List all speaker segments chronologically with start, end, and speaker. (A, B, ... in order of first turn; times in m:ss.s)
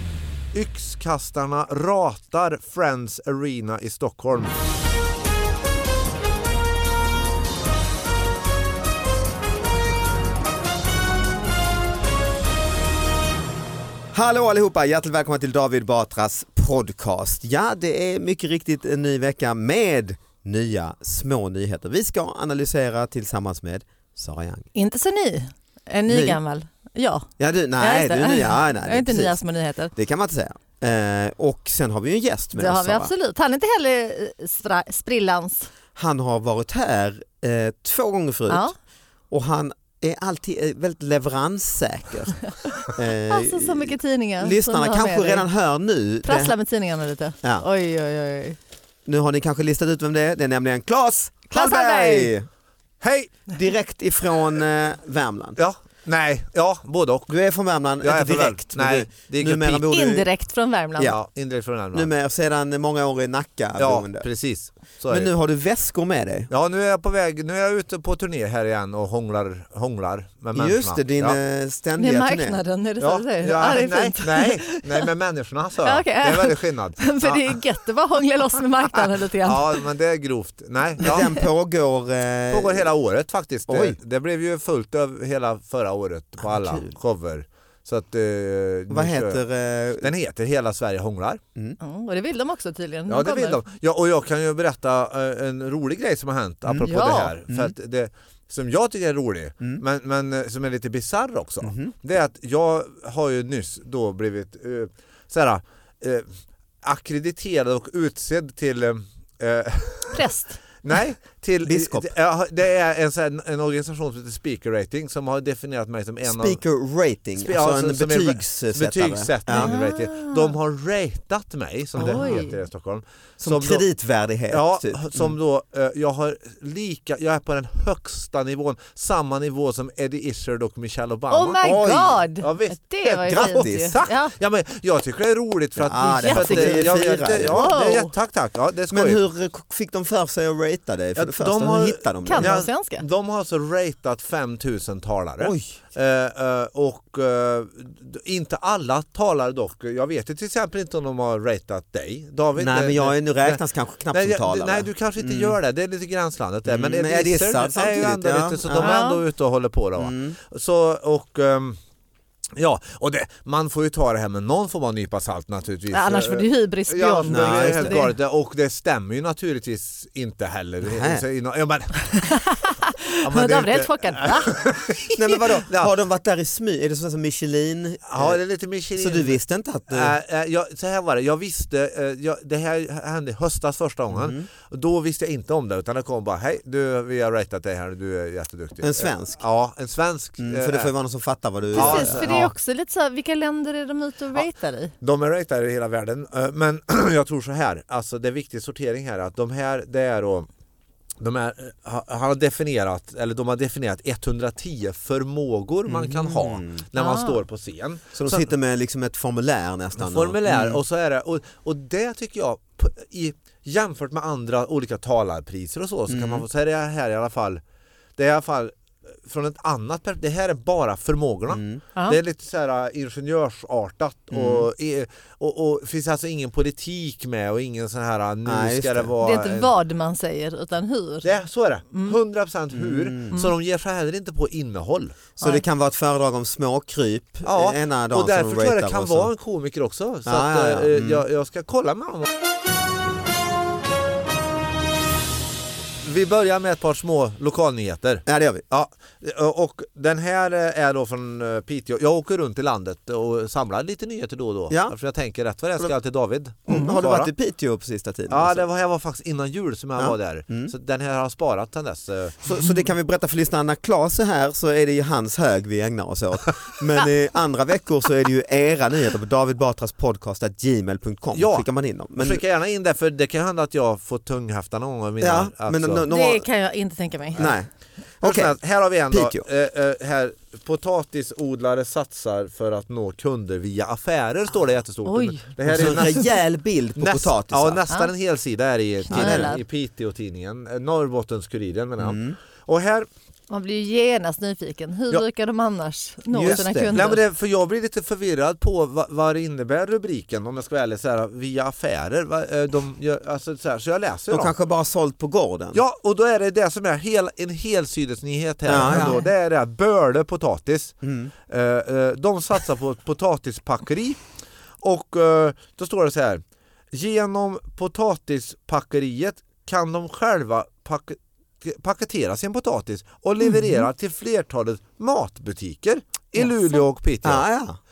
0:00.5-0:04.5 A
0:14.1-0:24.7 B
0:24.8-0:29.9 C
0:26.1-0:26.4 B
0:27.4-0:29.4 B
0:30.0-0:33.1 B
0:32.6-0:35.7 C
0:36.0-0:38.7 B
0:38.5-0:38.7 C
0:39.3-0:46.5 B
0:43.3-0:45.4 C
0:46.2-0:48.6 C
0:49.0-0:52.5 B
0:51.5-0:52.3 C
0:53.0-0:53.5 A
0:53.5-0:55.6 B
0:55.6-0:57.3 A
0:57.3-1:00.3 B
0:58.0-1:00.0 A
0:59.9-1:01.2 C
1:01.0-1:02.1 A
1:01.9-1:04.2 B
1:03.8-1:05.3 A
1:05.1-1:06.5 B
1:06.5-1:11.4 A
1:10.6-1:12.6 B
1:12.0-1:15.1 C
1:13.0-1:17.6 A
1:15.8-1:19.8 C
1:19.0-1:21.3 A
1:21.0-1:22.9 B
1:22.5-1:29.4 A
1:23.7-1:24.0 B
1:26.4-1:26.9 B
1:28.9-1:30.1 B
1:30.0-1:31.4 A
1:31.8-1:33.6 C
1:33.1-1:46.3 A
1:36.8-1:37.3 C
1:41.6-1:41.9 B
1:46.8-1:50.3 A
1:50.1-1:50.6 C
1:50.8-1:56.6 A
1:51.7-1:52.1 B
1:56.2-1:59.7 B
1:57.4-2:03.8 A
1:59.5-2:00.5 C
2:02.0-2:02.4 B
2:02.0-2:02.6 C
2:03.4-2:05.3 B
2:04.5-2:19.2 A
2:11.3-2:14.3 C
2:11.7-2:12.1 B
2:13.2-2:13.9 B
2:15.8-2:17.8 B
2:16.0-2:18.1 C
2:18.9-2:22.6 B
2:21.2-2:33.6 A
2:22.2-2:23.0 C
2:25.4-2:25.8 B
2:32.6-2:35.6 B
2:34.1-2:41.8 A
2:36.7-2:39.0 B
2:38.8-2:39.2 C
2:40.0-2:40.4 B
2:42.6-2:52.3 A
2:45.9-2:48.1 C
2:47.3-2:48.0 B
2:50.8-2:51.2 B
2:52.1-2:54.6 C
2:53.2-2:55.9 A
2:55.1-2:58.4 B
2:58.1-3:10.9 A
2:59.0-3:00.1 B
3:04.1-3:04.4 B
3:08.8-3:09.4 B
3:10.4-3:12.4 B
3:11.7-3:12.5 A
3:11.8-3:14.9 C
3:15.0-3:20.5 A
3:21.2-3:28.5 A
3:25.9-3:26.8 B
3:27.0-3:27.4 C
3:28.1-3:30.8 B
3:30.0-3:37.6 A
3:36.1-3:36.4 B
3:38.2-3:49.7 A
3:41.5-3:41.8 B
3:44.3-3:44.7 B
3:48.4-3:49.1 B
3:49.2-3:51.3 C
3:51.2-3:55.2 A
3:52.7-3:53.3 B
3:55.4-3:59.3 B
3:57.4-4:02.3 A
4:00.2-4:01.2 B
4:06.0-4:17.3 A
4:08.2-4:08.6 B
4:14.7-4:14.9 B
4:16.7-4:18.6 B
4:16.7-4:17.0 C
4:18.3-4:22.5 A
4:20.0-4:20.7 B
4:22.4-4:32.4 B
4:31.3-4:36.1 A
4:35.2-4:36.5 B
4:36.1-4:37.4 C
4:37.4-4:37.7 B
4:38.2-4:38.5 B
4:38.2-4:46.3 A
4:39.1-4:39.4 B
4:45.1-4:45.4 C
4:45.7-4:47.8 B
4:47.0-4:53.1 A
4:49.0-4:49.6 C
4:49.1-4:49.6 B
4:52.0-4:52.4 B
4:53.5-4:57.2 C
4:56.3-4:57.0 B
4:56.4-5:04.5 A
5:04.3-5:05.8 B
5:05.7-5:10.9 A
5:08.7-5:09.2 B
5:08.8-5:09.3 C
5:11.0-5:11.3 B
5:11.5-5:14.2 A
5:14.8-5:27.4 A
5:23.5-5:23.8 C
5:27.2-5:27.8 B